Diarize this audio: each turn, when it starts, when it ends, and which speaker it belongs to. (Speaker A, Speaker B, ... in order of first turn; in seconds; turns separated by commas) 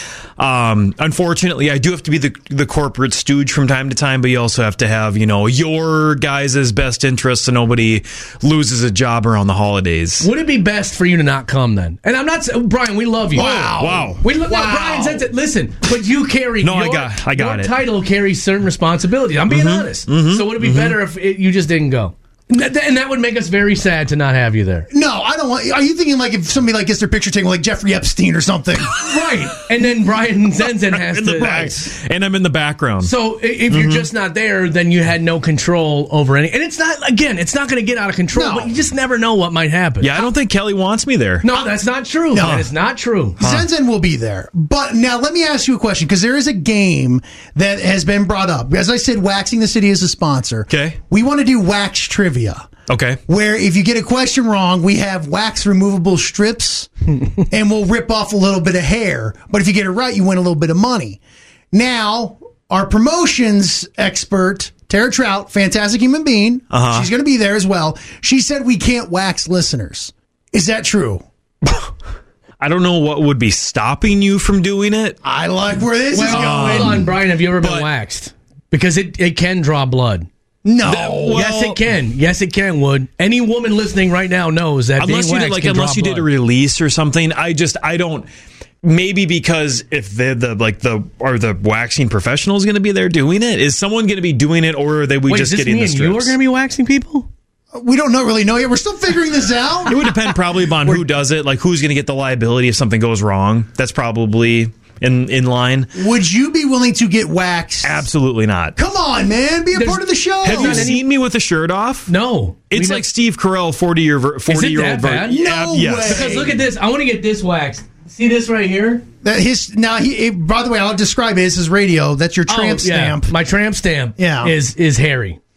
Speaker A: 0.4-10.3, Speaker B: 10.2-24.9, Speaker C: 13.3-15.3, Speaker A: 13.7-14.2, Speaker A: 16.6-17.8, Speaker A: 19.5-21.0, Speaker C: 24.9-29.0, Speaker B: 28.9-31.9, Speaker A: 30.9-33.1, Speaker B: 33.0-40.1, Speaker A: 33.7-34.1, Speaker C: 38.3-38.8, Speaker A: 40.0-41.5, Speaker B: 41.4-43.4, Speaker C: 42.3-42.6, Speaker A: 42.4-42.7, Speaker C: 43.4-52.7, Speaker A: 43.4-43.7, Speaker A: 50.7-51.0, Speaker A: 52.9-53.2, Speaker C: 53.3-56.9, Speaker C: 57.5-61.2, Speaker C: 61.7-71.2, Speaker A: 66.7-67.1, Speaker A: 72.6-75.2, Speaker C: 75.2-77.1, Speaker A: 76.2-77.9, Speaker B: 76.2-80.3, Speaker C: 80.7-81.7, Speaker A: 80.9-81.8, Speaker B: 81.3-86.3, Speaker A: 85.0-88.3, Speaker A: 88.8-96.3, Speaker B: 95.3-97.3, Speaker C: 97.7-100.1, Speaker A: 99.9-105.9, Speaker C: 106.0-108.1, Speaker A: 107.8-108.8, Speaker C: 108.8-110.9, Speaker B: 109.7-111.0, Speaker A: 110.4-112.1, Speaker B: 112.1-113.0, Speaker A: 112.7-116.2, Speaker B: 114.5-115.4, Speaker C: 115.3-116.6, Speaker B: 116.0-119.0, Speaker C: 119.2-123.3, Speaker B: 122.5-125.4, Speaker C: 124.2-124.5